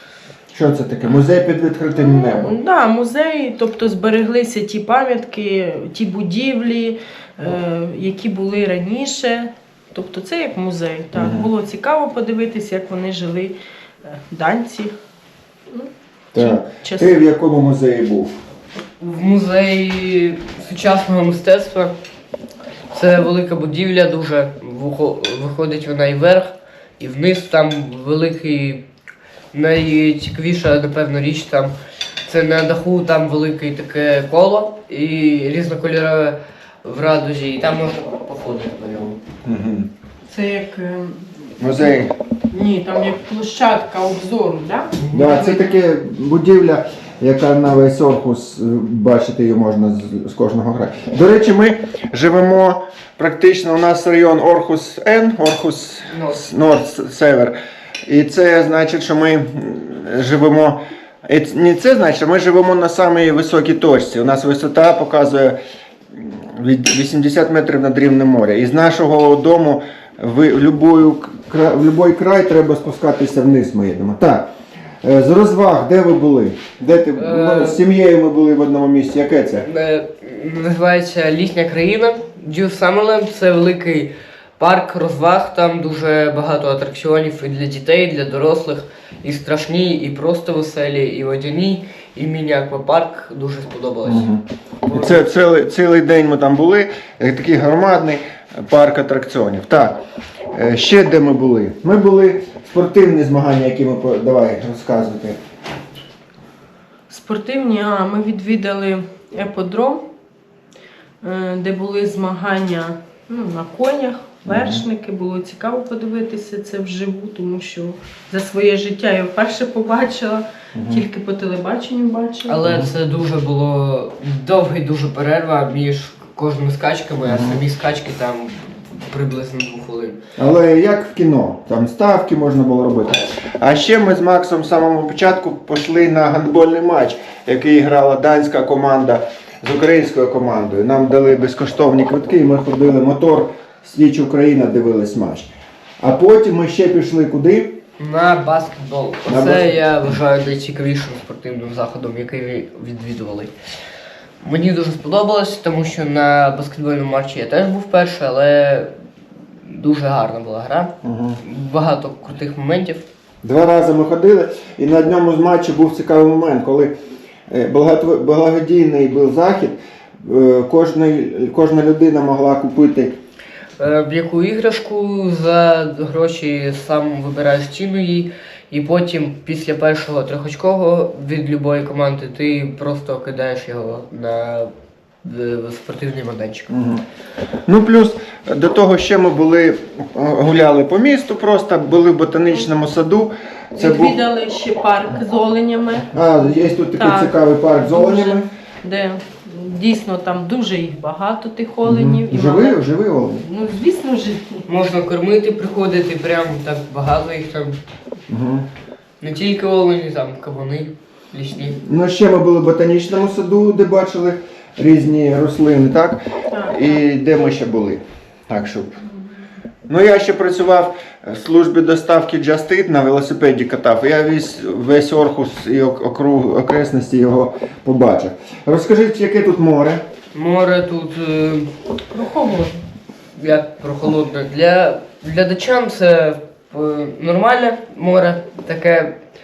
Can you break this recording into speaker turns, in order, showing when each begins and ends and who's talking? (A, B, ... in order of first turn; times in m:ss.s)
0:00.5-0:02.5 A
0:02.1-0:14.9 B
0:11.1-0:11.5 A
0:15.7-0:17.1 B
0:16.3-0:18.3 A
0:19.0-0:21.9 C
0:22.9-0:28.8 C
0:29.5-0:31.7 C
0:32.2-0:39.2 C
0:39.4-0:39.9 A
0:40.3-0:41.9 B
0:41.6-0:42.1 A
0:42.5-0:45.8 B
0:45.0-0:45.3 C
0:45.1-0:57.5 A
0:56.1-0:56.5 C
0:58.1-1:05.6 A
1:06.1-1:14.5 A
1:15.0-1:19.7 A
1:17.2-1:17.8 C
1:19.6-1:34.3 C
1:34.0-1:34.4 A
1:34.8-1:35.2 C
1:34.9-1:40.0 A
1:40.5-1:45.4 A
1:47.1-1:50.0 B
1:51.2-2:02.6 B
1:54.4-1:54.8 A
2:00.7-2:01.0 A
2:02.5-2:10.2 C
2:07.2-2:07.6 A
2:10.4-2:27.8 A
2:28.0-2:33.5 C
2:29.3-2:29.8 A
2:34.4-2:38.9 C
2:39.7-2:43.0 C
2:41.0-2:41.4 A
2:43.4-2:46.9 A
2:47.5-2:53.2 A
2:53.8-3:04.7 C
3:05.2-3:06.7 C
3:06.7-3:07.0 A
3:07.7-3:14.2 A
3:13.7-3:22.8 B
3:16.1-3:18.5 A
3:21.8-3:23.4 A
3:23.4-3:24.6 B
3:24.7-3:27.8 C
3:28.3-3:28.7 A
3:29.2-3:31.8 C
3:31.8-3:38.9 A
3:36.5-3:36.9 B
3:39.9-3:50.0 A
3:50.3-3:51.7 C
3:52.1-3:52.8 B
3:53.3-3:59.2 C